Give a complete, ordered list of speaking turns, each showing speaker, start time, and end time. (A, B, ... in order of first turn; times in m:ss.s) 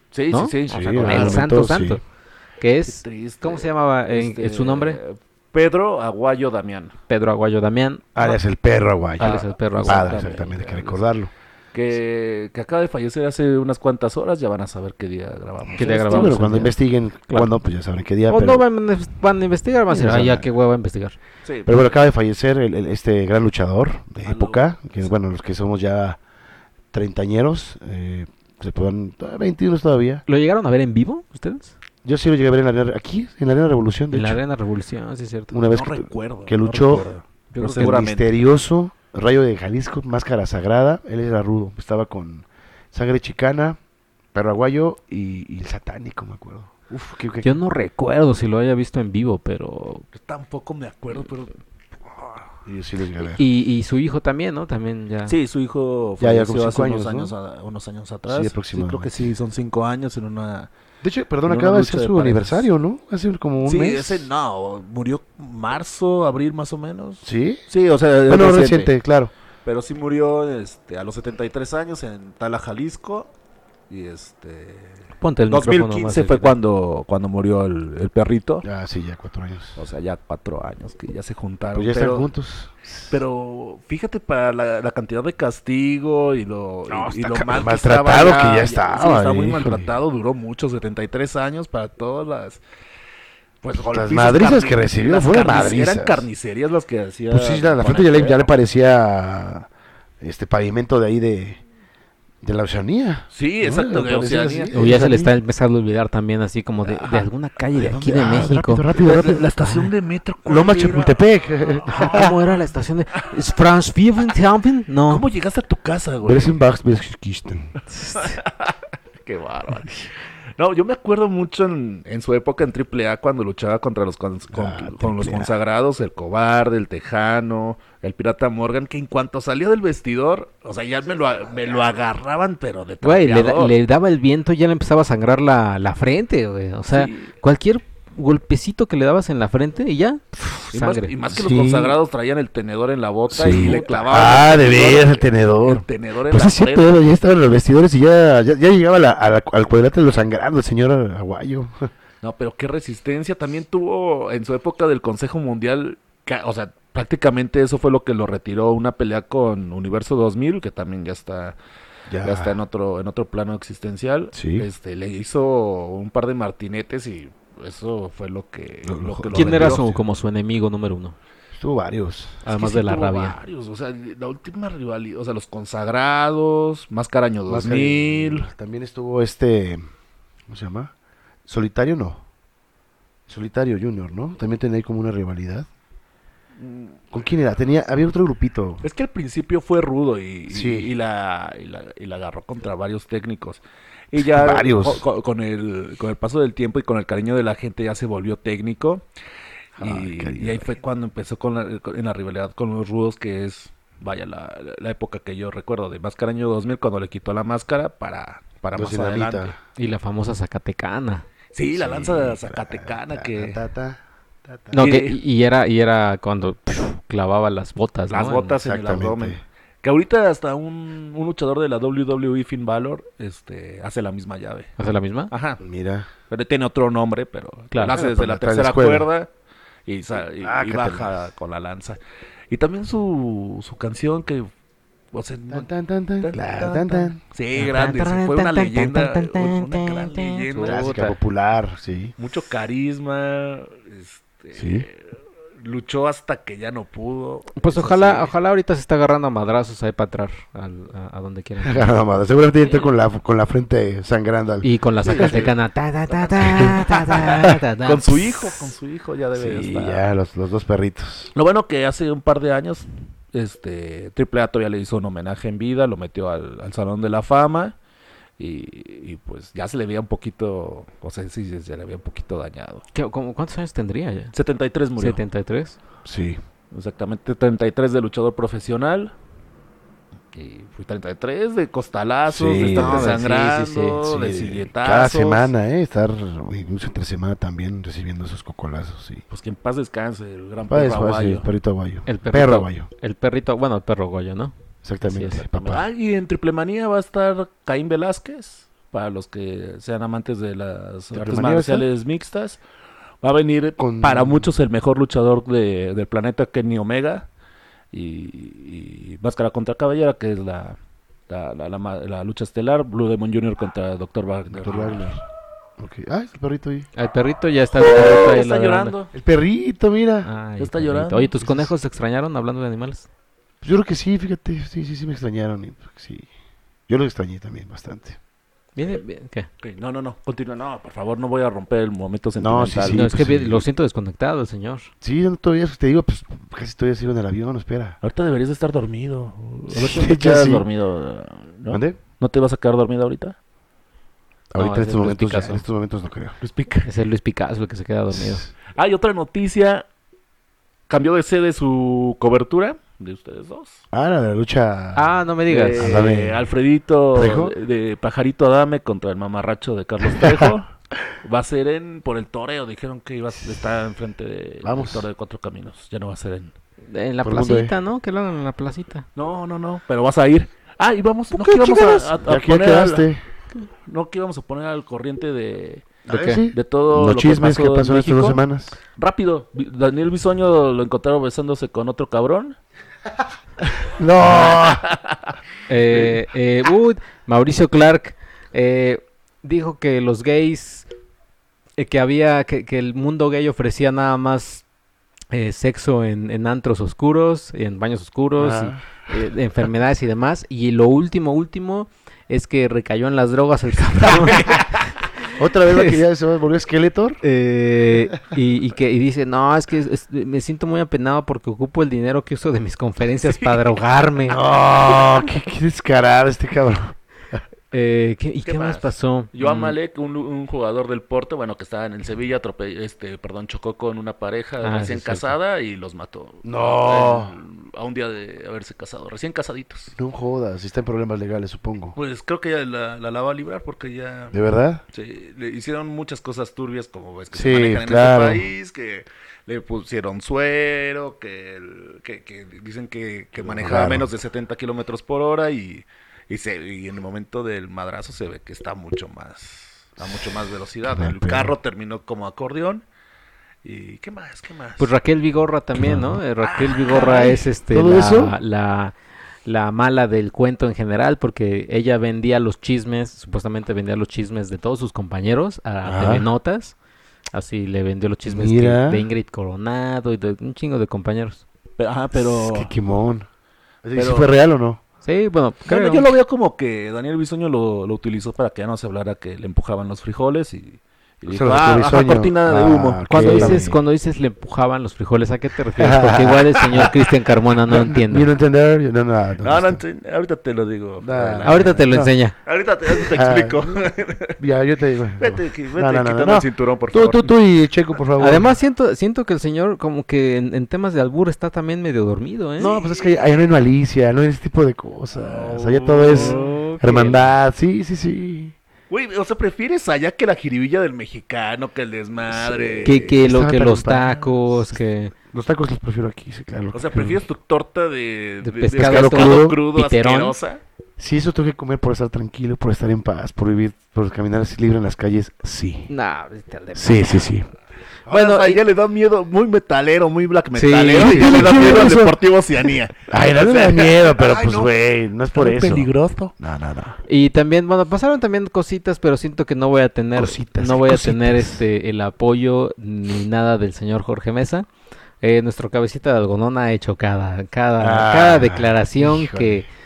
0:00.1-0:01.4 A
0:00.3-0:02.0 B
0:00.7-0:02.0 C
0:02.6-0:05.0 B
0:02.9-0:07.0 A
0:07.1-0:08.4 B
0:08.2-0:11.3 C
0:09.2-0:10.3 B
0:09.2-0:11.0 A
0:11.7-0:16.4 A
0:15.7-0:18.6 C
0:15.8-0:16.8 B
0:18.3-0:21.2 B
0:19.9-0:20.5 C
0:21.4-0:21.9 A
0:21.7-0:26.2 C
0:24.2-0:25.1 A
0:26.9-0:30.2 C
0:30.3-0:31.7 B
0:32.0-0:34.4 C
0:34.1-0:35.6 B
0:35.5-0:37.1 C
0:35.7-0:38.3 A
0:37.5-0:38.0 B
0:37.6-0:43.8 C
0:44.3-0:47.5 C
0:47.4-0:50.1 B
0:50.1-0:52.5 A
0:52.7-0:53.4 C
0:53.4-0:55.4 B
0:55.3-1:00.7 A
0:56.2-0:57.3 C
0:58.3-0:59.3 C
1:01.0-1:04.3 C
1:01.5-1:02.6 A
1:03.6-1:08.9 A
1:07.2-1:07.6 C
1:08.3-1:09.3 C
1:09.6-1:13.3 A
1:13.9-1:18.6 A
1:15.2-1:16.6 B
1:18.6-1:19.8 C
1:19.8-1:22.3 A
1:21.7-1:23.2 C
1:23.1-1:32.6 A
1:26.9-1:29.9 C
1:33.6-1:38.5 A
1:33.7-1:36.3 C
1:37.3-1:39.7 C
1:40.2-1:41.6 C
1:42.4-1:45.3 C
1:43.3-1:44.8 A
1:44.7-1:48.9 B
1:47.0-1:47.3 A
1:47.8-1:49.9 C
1:49.0-1:51.2 A
1:50.5-1:52.4 C
1:51.7-1:52.4 A
1:51.9-1:55.2 B
1:55.1-1:56.6 A
1:56.2-1:57.7 C
1:57.9-1:58.4 B
1:58.1-2:13.8 A
2:04.5-2:05.5 C
2:13.0-2:21.1 B
2:16.9-2:17.3 A
2:20.7-2:26.9 A
2:21.3-2:22.0 C
2:23.3-2:31.9 C
2:23.6-2:24.0 B
2:32.2-2:41.6 A
2:42.1-2:42.6 C
2:42.2-2:49.9 A
2:44.3-2:44.7 C
2:48.8-2:50.0 C
2:49.3-2:51.2 B
2:51.6-2:52.4 C
2:52.4-2:53.4 B
2:52.5-2:58.5 A
2:57.5-2:59.8 C
3:00.5-3:00.9 C
3:01.5-3:02.2 C
3:03.3-3:05.7 C
3:06.6-3:07.0 A
3:07.1-3:08.8 C
3:08.8-3:19.0 A
3:10.5-3:10.9 C
3:14.2-3:15.0 C
3:19.8-3:29.5 A
3:19.8-3:20.7 C
3:28.7-3:29.6 C
3:29.8-3:31.3 B
3:31.5-3:33.6 A
3:31.7-3:34.9 C
3:34.7-3:38.6 B
3:34.8-3:35.2 A
3:38.1-3:44.8 A
3:38.6-3:39.4 C
3:44.8-3:45.3 B
3:45.3-3:45.6 A
3:45.6-3:46.1 C
3:46.3-3:49.3 A
3:47.7-3:48.0 B
3:47.9-3:49.1 C
3:49.9-3:52.0 A
3:50.4-3:51.2 C
3:52.5-3:54.5 A
3:55.1-3:55.7 A
3:55.5-3:57.2 C
3:56.2-4:00.9 A
3:57.6-4:01.2 B
4:00.6-4:02.1 C
4:02.2-4:08.3 A
4:04.6-4:04.9 C
4:07.6-4:12.1 B
4:11.6-4:15.4 C
4:14.6-4:18.5 B
4:15.0-4:15.6 A
4:16.2-4:20.0 A
4:19.4-4:21.3 C
4:21.3-4:27.8 A
4:28.4-4:32.8 A
4:33.0-4:34.3 B
4:34.3-4:35.2 A
4:35.0-4:35.8 B
4:36.0-4:36.4 C
4:36.7-4:39.1 A
4:40.3-4:45.5 A
4:42.3-4:43.2 C
4:42.6-4:44.1 B
4:44.0-4:49.2 C
4:49.3-4:51.5 A
4:50.7-4:52.9 C
4:52.1-4:55.4 B
4:54.8-4:55.9 C
4:55.5-5:02.6 A
5:01.1-5:01.9 C
5:03.2-5:07.3 A
5:03.8-5:04.5 C
5:07.9-5:10.8 A
5:11.3-5:15.1 A
5:14.5-5:15.2 C
5:15.8-5:16.9 C
5:17.0-5:19.0 B
5:17.8-5:19.1 A
5:19.1-5:20.3 C
5:20.2-5:23.1 B
5:20.6-5:21.4 A
5:21.4-5:21.7 C
5:23.6-5:26.3 C
5:26.9-5:28.2 C
5:28.8-5:29.5 B
5:29.6-5:33.1 A
5:32.4-5:33.7 C
5:32.9-5:34.9 B
5:35.0-5:38.0 C
5:38.0-5:43.4 A
5:39.7-5:40.7 C
5:41.7-5:42.0 C
5:44.5-5:46.4 C
5:44.6-5:45.6 B
5:46.4-5:46.9 A
5:46.8-5:48.4 B
5:48.1-5:48.5 C
5:48.8-5:49.8 A
5:50.9-5:53.8 A
5:53.9-5:55.1 C
5:55.0-5:56.0 B
5:55.5-6:00.7 A
5:55.8-5:56.5 C
5:57.1-5:57.6 C
6:00.1-6:00.5 C
6:01.2-6:06.5 A
6:04.6-6:05.0 C
6:06.9-6:09.1 B
6:07.2-6:07.7 C
6:09.2-6:13.1 A
6:11.3-6:12.2 B
6:12.2-6:13.2 C
6:13.9-6:18.4 A
6:16.1-6:18.8 C
6:16.1-6:16.4 B
6:19.0-6:22.6 A
6:24.0-6:24.8 C
6:24.2-6:25.3 A
6:25.7-6:30.9 B
6:25.9-6:26.2 A
6:31.8-6:34.6 B
6:35.3-6:44.9 B
6:38.4-6:38.8 C
6:45.4-6:47.2 C
6:45.7-6:46.0 B
6:47.2-6:54.4 B
6:54.3-6:57.4 C
6:57.7-6:59.8 B
6:58.5-7:09.9 A
7:04.6-7:05.3 B
7:06.4-7:07.3 C
7:10.0-7:12.0 C
7:12.0-7:14.4 A
7:14.3-7:14.8 C
7:14.9-7:32.8 A
7:17.3-7:18.4 C
7:23.4-7:24.1 C
7:30.8-7:31.5 C
7:33.6-7:34.9 A
7:34.8-7:46.8 B
7:35.8-7:36.2 C
7:36.6-7:37.4 A
7:36.9-7:38.4 C
7:45.8-7:46.3 C
7:47.3-7:51.4 B
7:48.3-7:49.0 C
7:51.8-7:52.7 A
7:52.2-7:53.3 C
7:53.8-7:54.8 C
7:54.0-7:54.3 A
7:55.0-7:56.1 B
7:55.7-8:03.6 A
8:01.3-8:03.8 C
8:03.1-8:08.3 B
8:05.8-8:06.9 C
8:07.7-8:09.8 C
8:09.4-8:11.9 A
8:11.0-8:12.1 C
8:11.4-8:12.4 B
8:12.4-8:14.4 A
8:13.0-8:13.9 C
8:14.4-8:18.5 C
8:15.2-8:17.3 A
8:18.2-8:22.8 B
8:22.6-8:28.6 C
8:22.8-8:23.1 A
8:25.1-8:26.6 A
8:26.1-8:27.3 B
8:28.9-8:33.0 A
8:32.3-8:34.8 C
8:32.8-8:35.1 B
8:35.3-8:37.2 C
8:36.7-8:40.6 A
8:38.4-8:40.4 B
8:38.8-8:39.6 C
8:41.0-8:45.9 C
8:45.9-8:47.3 B
8:46.8-8:47.5 C
8:48.1-8:48.6 B
8:48.1-8:54.8 A
8:50.6-8:51.7 B
8:51.0-8:52.2 C
8:53.1-8:57.0 C
8:55.3-8:56.3 A
8:57.1-9:04.7 B
9:00.2-9:01.6 C
9:05.2-9:09.7 B
9:07.8-9:09.6 C